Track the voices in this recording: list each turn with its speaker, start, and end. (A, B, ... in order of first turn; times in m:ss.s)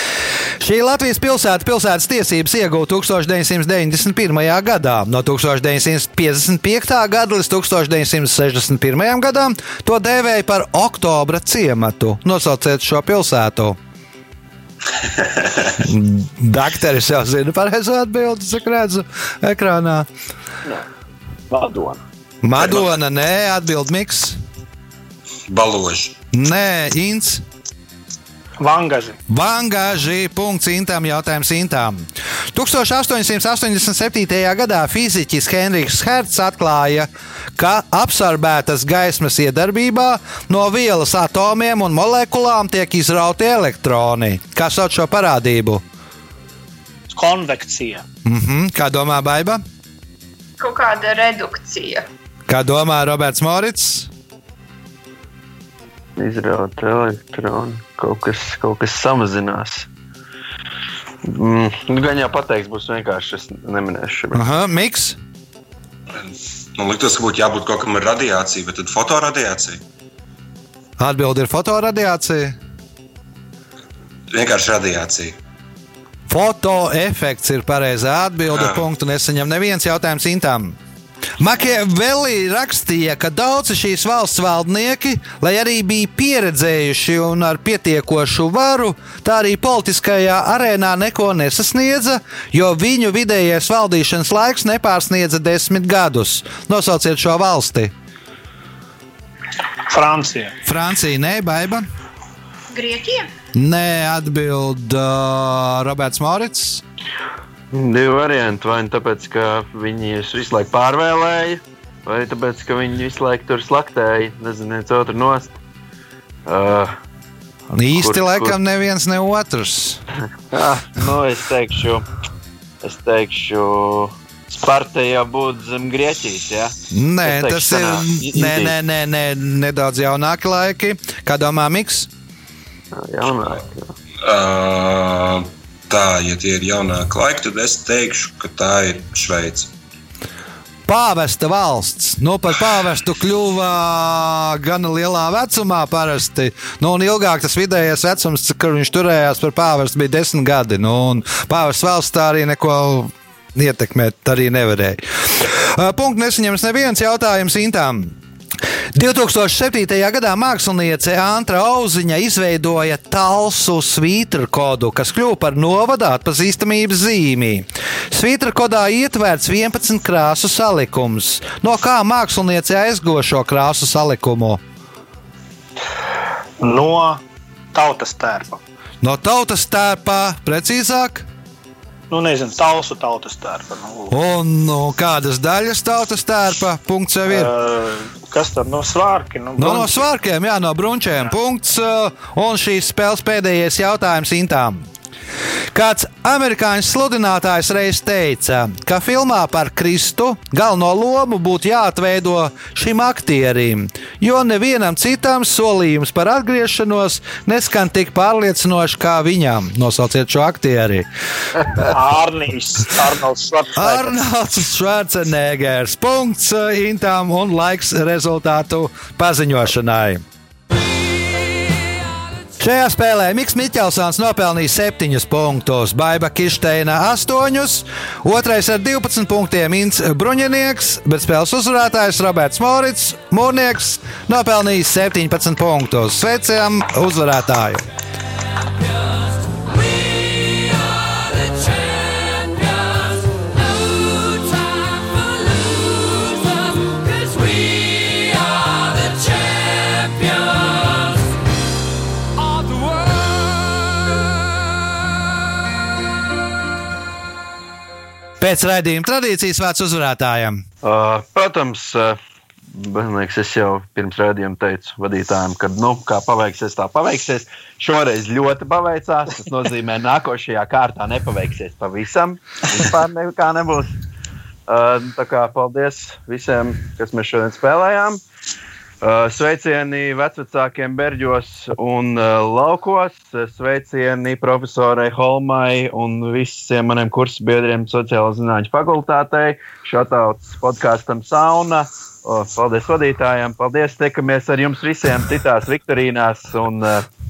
0:00.6-0:13.8 A
0:15.0-0:15.8 B
0:15.8-0:20.1 A
0:21.5-0:22.0 C
0:22.4-0:24.4 A
0:22.6-0:22.8 B
0:25.5-0:26.2 B
0:26.3-0:27.4 A
0:28.6-0:29.2 D
0:29.3-0:45.8 A
0:47.1-0:48.0 D
0:48.2-0:49.6 A
0:50.6-0:52.0 E
0:52.5-0:54.1 A
0:56.2-0:59.9 C
1:01.2-1:04.4 C
1:04.3-1:05.2 A
1:06.2-1:09.8 B
1:11.0-1:12.6 A
1:14.3-1:15.4 B
1:16.3-1:20.8 A
1:18.5-1:18.8 B
1:21.4-1:37.9 A
1:39.9-1:40.5 D
1:40.6-1:41.9 A
1:42.7-1:43.3 E
1:43.5-1:46.8 A
1:47.7-1:55.5 C
1:56.4-1:56.9 C
1:57.7-2:00.0 A
1:58.0-1:58.5 C
2:00.5-2:02.0 C
2:02.8-2:08.7 C
2:06.9-2:12.1 A
2:12.9-2:13.9 C
2:14.2-2:19.7 B
2:20.9-2:38.2 A
2:38.9-2:54.6 A
2:56.6-2:57.2 D
2:57.7-2:58.6 D
2:59.0-3:01.3 A
3:02.1-3:04.1 D
3:04.1-3:07.5 A
3:07.3-3:10.1 D
3:09.6-3:14.8 A
3:15.7-3:31.1 A
3:31.9-3:34.2 D
3:33.7-3:40.2 A
3:42.6-3:57.8 A
4:12.7-4:13.0 C
4:18.4-4:20.6 A
4:20.8-4:33.9 C
4:34.7-4:38.2 C
4:39.0-4:57.0 C